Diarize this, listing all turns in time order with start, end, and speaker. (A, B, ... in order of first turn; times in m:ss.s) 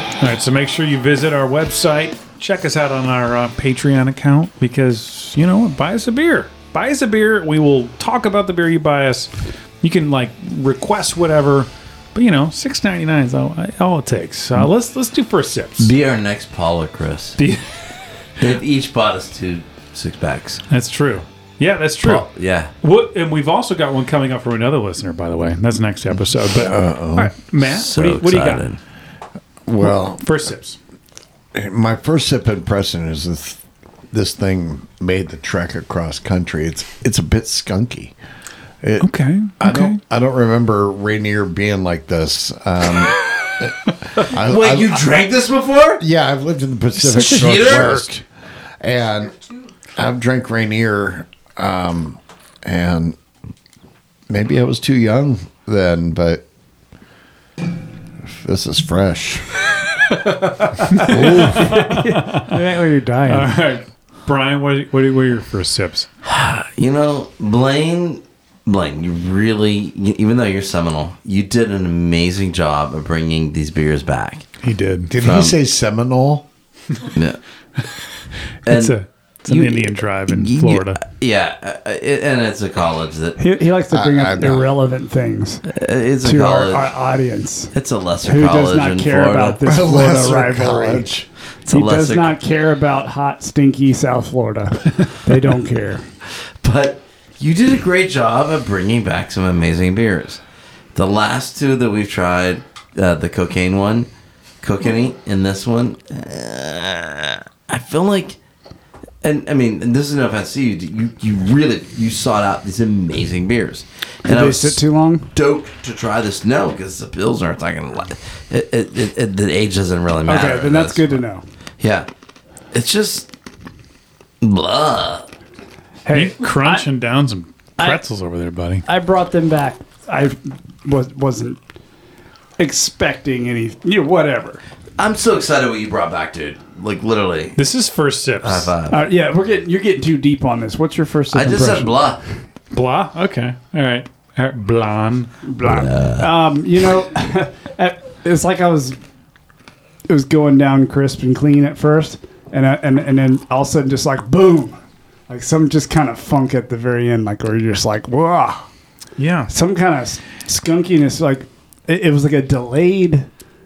0:00.2-0:15.9 A
0:15.8-0:17.4 B
0:17.4-0:17.6 A
0:18.4-0:20.6 B
0:20.7-0:22.2 A
0:22.0-0:22.7 B
0:22.8-0:28.7 A
0:26.5-0:27.3 C
0:27.6-0:28.8 B
0:29.7-0:30.2 C
0:29.8-0:30.8 A
0:31.5-0:33.6 C
0:34.1-0:38.1 C
0:38.8-0:45.1 C
0:39.0-0:40.0 A
0:44.3-0:46.0 B
0:46.0-0:48.2 C
0:47.0-0:47.9 A
0:47.2-0:48.0 B
0:48.8-0:49.4 C
0:49.9-0:53.2 C
0:54.3-0:56.4 C
0:58.2-0:59.5 C
1:00.9-1:02.5 A
1:00.9-1:03.5 D
1:01.0-1:01.7 C
1:03.3-1:06.1 A
1:06.2-1:14.4 B
1:14.6-1:15.1 A
1:15.1-1:16.4 C
1:15.2-1:15.5 B
1:17.1-1:17.4 B
1:18.6-1:21.0 A
1:18.6-1:23.4 B
1:23.4-1:25.6 D
1:23.9-1:24.7 C
1:25.7-1:26.9 B
1:26.2-1:31.1 D
1:27.7-1:29.6 B
1:29.6-1:31.3 C
1:31.7-1:36.0 D
1:31.7-1:32.3 B
1:36.6-1:40.4 B
1:40.9-1:44.1 B
1:44.6-1:48.4 B
1:49.2-1:54.8 B
1:54.2-1:55.3 D
1:55.3-2:01.2 B
2:00.2-2:01.4 D
2:01.8-2:02.1 B
2:02.7-2:03.3 B
2:04.4-2:05.3 B
2:06.0-2:06.8 D
2:06.1-2:08.8 A
2:08.8-2:11.6 D
2:12.6-2:14.6 D
2:15.0-2:17.6 B
2:17.6-2:18.7 A
2:18.4-2:19.1 B
2:18.9-2:22.0 D
2:21.3-2:22.2 B
2:22.7-2:25.3 A
2:25.4-2:29.0 D
2:25.6-2:26.3 B
2:30.1-2:34.8 D
2:35.3-2:38.7 D
2:39.2-2:39.5 A
2:39.5-2:43.3 D